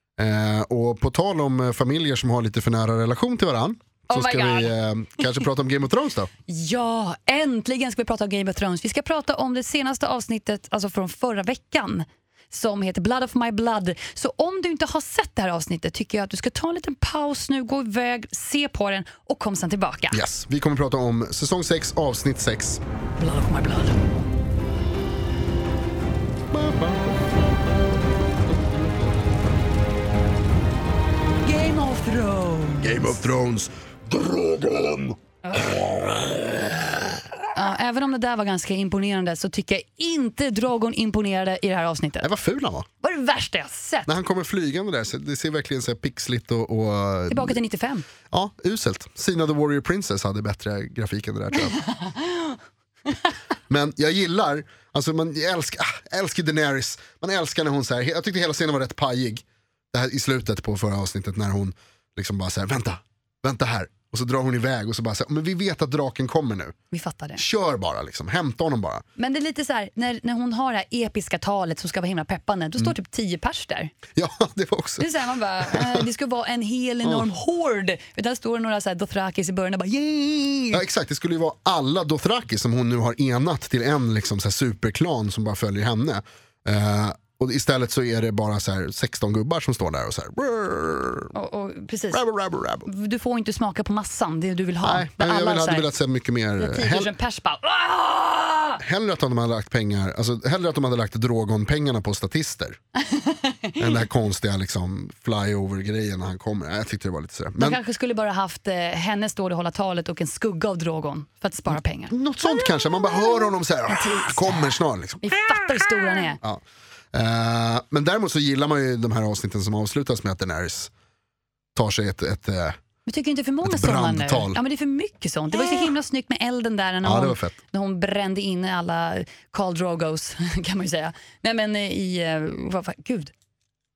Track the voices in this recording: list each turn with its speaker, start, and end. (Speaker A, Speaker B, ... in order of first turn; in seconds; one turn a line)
Speaker A: 0.2-6.3
Speaker B: 4.1-4.7
Speaker B: 6.5-20.2
Speaker A: 20.1-22.8
Speaker B: 23.2-24.0
Speaker A: 26.5-27.3
Speaker B: 31.4-33.2
Speaker A: 32.8-37.4
Speaker B: 35.4-35.8
Speaker B: 37.5-42.3
Speaker A: 42.2-42.9
Speaker B: 43.0-44.1
Speaker A: 44.0-47.6
Speaker B: 47.3-48.0
Speaker A: 48.3-51.8
Speaker B: 51.7-52.6
Speaker A: 53.7-66.7
Speaker B: 66.9-67.4
Speaker A: 67.4-69.0
Speaker B: 69.2-73.9
Speaker A: 74.1-75.1
Speaker B: 75.0-80.8
Speaker A: 75.7-76.0
Speaker A: 80.7-91.3
Speaker B: 91.3-92.2
Speaker A: 92.1-92.9
Speaker B: 92.8-95.9
Speaker A: 94.8-97.1
Speaker B: 96.6-98.8
Speaker A: 98.8-102.8
Speaker B: 103.0-103.9
Speaker A: 103.8-107.8
Speaker B: 107.6-113.5
Speaker A: 112.1-116.6
Speaker B: 114.0-116.4
Speaker A: 117.1-120.9
Speaker A: 121.7-122.8
Speaker B: 123.0-133.3
Speaker A: 123.6-124.6
Speaker A: 127.0-127.6